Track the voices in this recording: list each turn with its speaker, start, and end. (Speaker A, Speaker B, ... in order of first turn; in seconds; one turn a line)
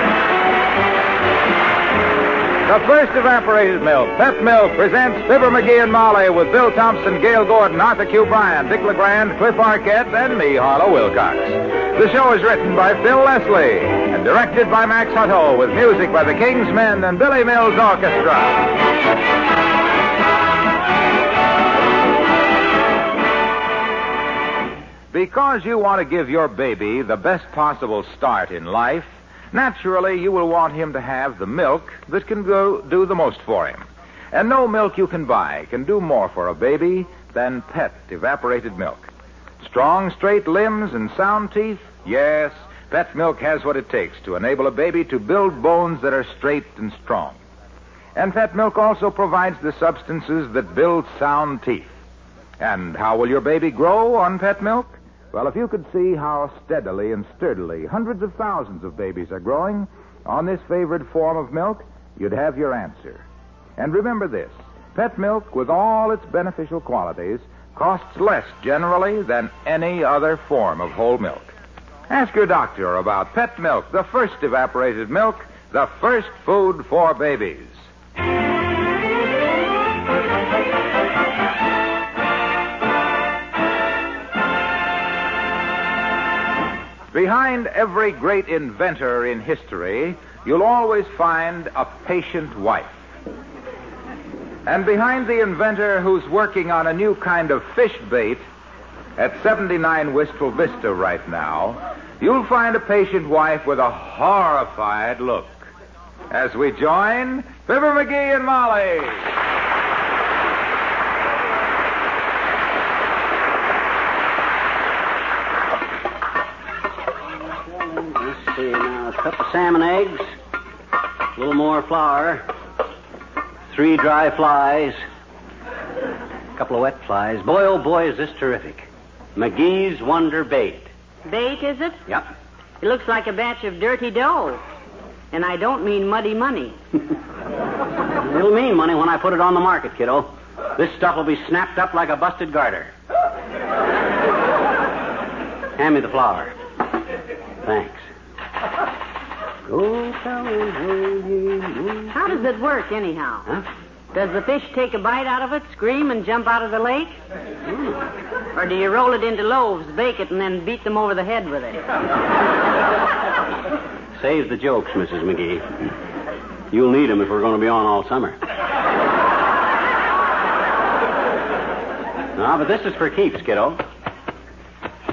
Speaker A: 2.6-18.7
Speaker A: 25.1-39.1
Speaker A: 39.6-47.4
Speaker A: 48.1-51.9
Speaker A: 52.6-63.2
Speaker A: 63.8-71.5
Speaker A: 72.1-77.8
Speaker A: 87.1-93.0
Speaker A: 94.7-98.4
Speaker A: 99.2-105.7
Speaker A: 106.3-109.2
Speaker B: 117.8-120.3
Speaker B: 121.3-122.4
Speaker B: 123.7-125.0
Speaker B: 126.5-130.9
Speaker C: 131.3-132.0
Speaker C: 132.8-134.6
Speaker C: 135.3-136.8
Speaker B: 138.2-142.9
Speaker B: 145.8-146.5
Speaker B: 147.6-148.1
Speaker B: 149.7-152.1
Speaker C: 152.1-153.5
Speaker C: 154.1-157.2
Speaker B: 157.7-158.0
Speaker C: 158.6-161.9
Speaker B: 164.2-165.6
Speaker B: 166.7-168.4
Speaker B: 172.4-173.8